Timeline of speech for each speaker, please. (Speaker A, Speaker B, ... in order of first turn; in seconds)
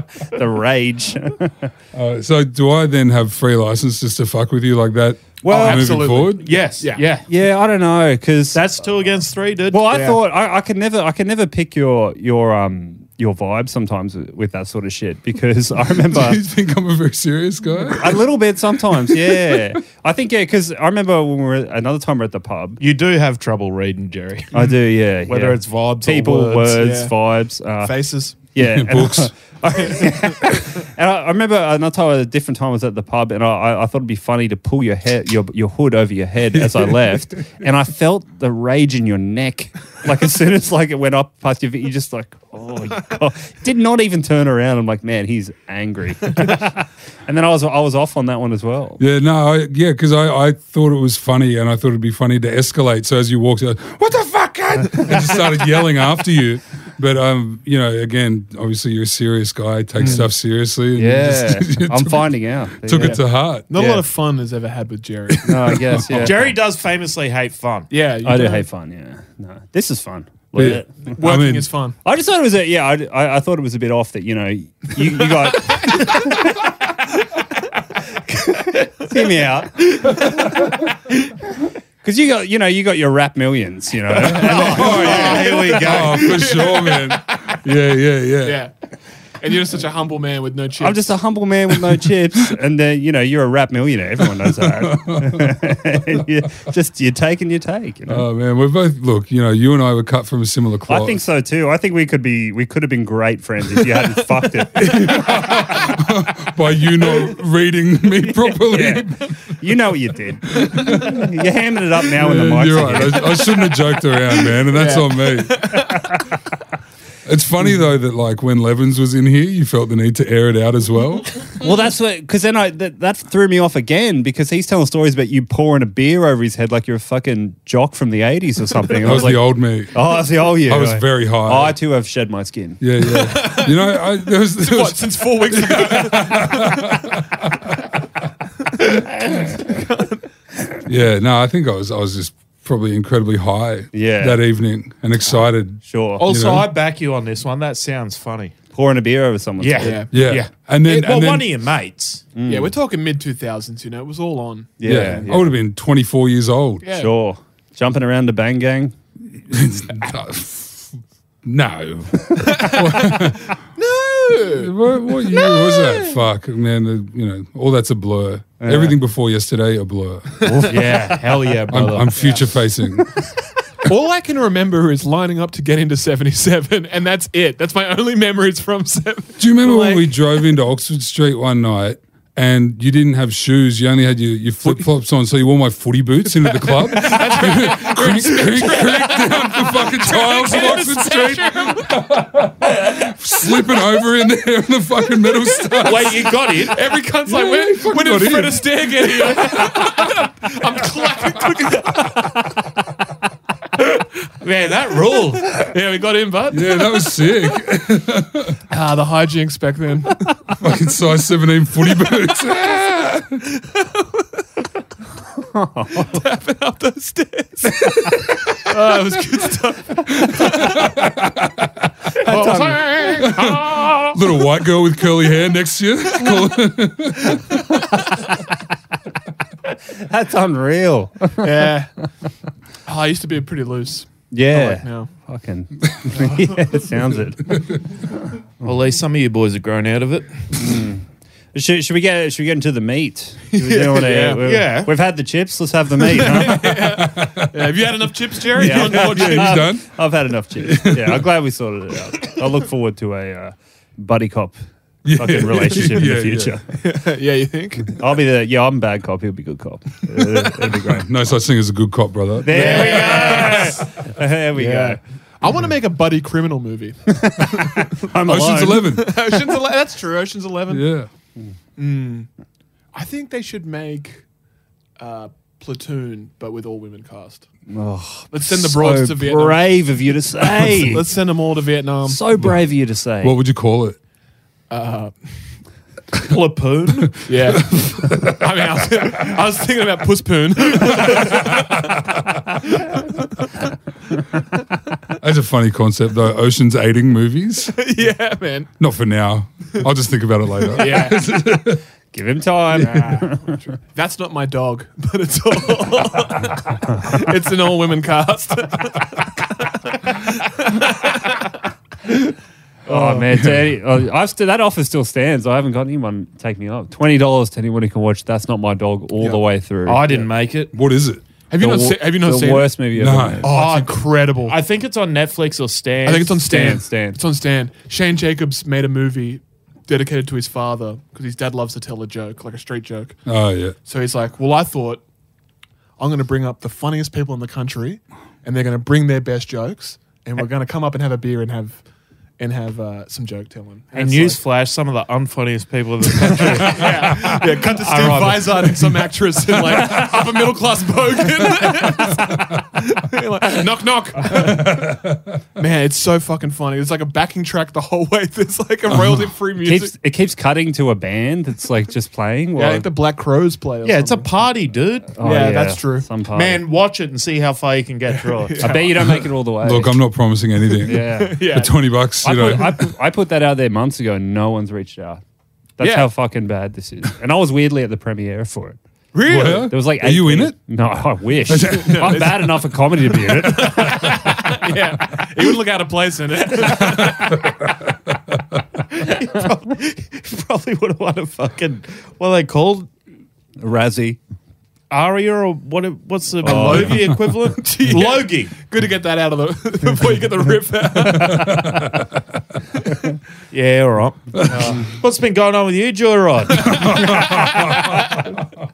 Speaker A: 0.3-1.7, 5.4-5.9, 7.3-8.7, 9.7-16.4, 18.0-22.8, 24.5-49.0, 61.0-63.2, 63.7-64.0, 65.4-66.5, 68.2-70.9, 72.0-76.7, 78.5-80.1, 82.0-85.8, 90.8-98.3, 100.9-105.3, 108.3-113.3, 121.6-132.8, 143.9-144.4, 145.8-146.2, 148.7-150.0, 152.3-152.8, 154.8-155.5, 156.9-158.9, 168.6-169.0, 215.4-216.2, 222.2-223.3, 229.9-231.8, 234.3-237.6, 240.6-241.0, 241.5-246.7, 248.6-254.6, 255.2-256.6, 257.9-261.1, 262.4-265.0, 267.1-268.9, 277.7-281.1, 282.1-283.3, 302.1-303.6, 312.9-320.2, 321.6-323.6, 326.5-327.2, 359.6-362.9, 365.2-366.6, 368.6-370.0, 370.9-371.4, 372.2-375.2, 375.8-378.8, 379.6-384.3, 393.6-394.2, 396.4-397.1
Speaker B: 1.9-6.5, 16.1-18.3, 19.0-19.6, 28.6-29.4, 36.6-37.1, 49.0-63.7, 65.3-66.4, 70.6-71.7, 84.2-88.7, 94.4-95.8, 98.1-101.2, 104.8-109.2, 110.6-111.2, 112.2-115.8, 117.3-121.4, 129.0-131.8, 132.8-137.1, 140.9-146.7, 150.1-151.5, 154.8-156.9, 159.3-160.9, 161.4-163.5, 164.5-170.7, 171.7-173.3, 179.4-196.3, 197.2-199.9, 206.5-208.6, 210.6-213.4, 220.2-221.5, 223.2-227.5, 246.3-247.8, 248.5-249.9, 250.6-251.3, 255.1-256.6, 260.9-262.8, 268.2-269.2, 270.7-271.1, 283.2-284.0, 287.1-288.7, 290.8-291.6, 295.2-297.7, 298.8-301.8, 313.3-313.7, 320.7-321.2, 322.9-323.6, 333.3-333.8, 354.3-355.4, 369.6-372.9, 379.2-380.6, 381.5-382.4, 386.6-387.5, 401.0-401.9, 406.6-408.0
Speaker C: 5.4-7.1, 9.9-10.2, 26.2-27.2, 27.8-28.4, 60.0-60.2, 63.0-65.5, 67.9-68.7, 71.0-72.0, 75.8-76.3, 84.6-87.5, 88.4-88.7, 89.4-91.2, 114.3-116.2, 133.1-136.8, 138.8-140.2, 149.8-150.1, 152.4-155.2, 156.8-157.1, 162.4-166.2, 170.4-170.7, 172.2-172.4, 173.8-180.2, 186.3-192.0, 196.6-202.6, 205.4-207.1, 208.7-210.3, 213.7-214.4, 216.0-220.8, 222.2-224.2, 227.3-227.9, 231.4-231.9, 232.9-235.1, 236.2-236.8, 243.5-244.4, 246.2-249.7, 256.8-258.0, 262.5-264.0, 264.5-267.9, 268.9-270.9, 271.8-272.3, 272.9-274.2, 275.0-277.5, 278.3-279.9, 280.4-282.2, 284.7-285.6, 287.3-291.7, 292.6-293.5, 297.7-298.7, 300.7-301.2, 302.8-311.6, 312.9-313.3, 321.5-322.9, 323.4-324.6, 326.1-333.2, 333.8-335.0, 336.0-341.8, 342.4-344.4, 346.1-355.0, 355.6-359.9, 362.5-364.3, 365.2-366.1, 368.1-369.3, 371.0-371.8, 375.8-376.1, 379.1-379.7, 381.7-387.4, 396.4-401.5, 404.5-404.9, 407.2-408.1
Speaker D: 6.4-7.3, 8.5-10.0, 22.8-24.5, 25.2-26.4, 66.1-67.9, 70.5-70.8, 84.6-86.4, 146.2-148.6, 149.6-152.3, 170.6-172.4, 195.8-196.8, 204.4-205.5, 238.6-240.5, 244.4-244.9, 262.5-263.8, 286.2-287.3, 319.9-320.7, 323.5-326.5, 343.9-349.0, 363.8-365.2, 366.3-368.9, 388.9-392.9, 394.9-398.5, 403.5-407.1